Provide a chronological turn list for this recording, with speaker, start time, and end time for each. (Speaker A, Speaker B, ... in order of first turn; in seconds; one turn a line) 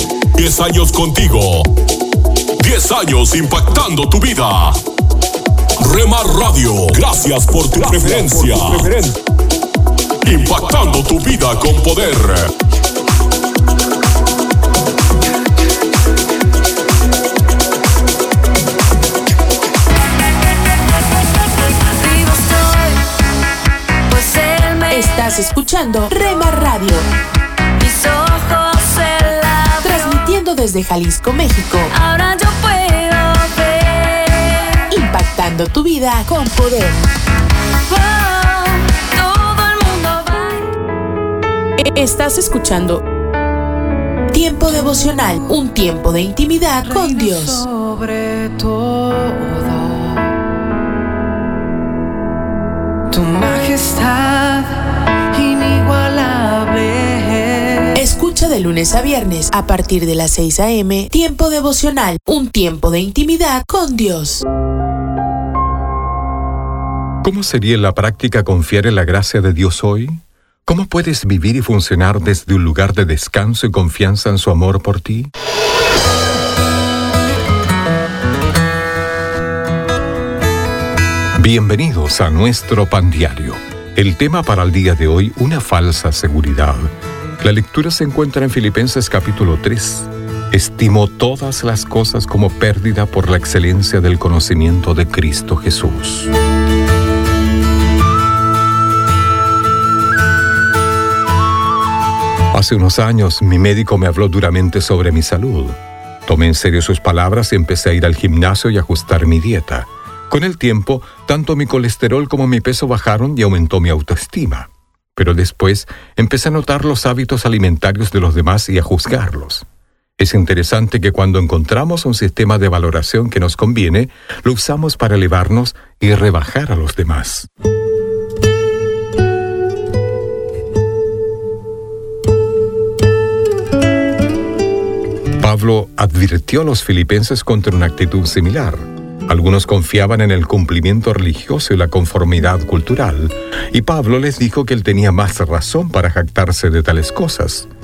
Speaker A: 0.4-1.7
Speaker A: 2.6-4.8
Speaker A: 5.8-9.1
Speaker A: 10.2-12.5
Speaker B: 21.2-23.0
Speaker B: 24.1-25.3
Speaker C: 24.9-27.1
Speaker B: 27.8-30.3
Speaker C: 29.8-31.9
Speaker B: 31.9-34.6
Speaker C: 34.9-37.0
Speaker B: 37.9-40.7
Speaker C: 41.8-43.0
Speaker C: 44.3-47.7
Speaker D: 48.3-50.1
Speaker D: 53.1-54.8
Speaker D: 55.3-57.9
Speaker C: 58.0-64.4
Speaker E: 67.2-75.3
Speaker E: 81.4-96.3
Speaker E: 102.5-119.7
Speaker E: 120.2-127.5
Speaker E: 135.4-147.7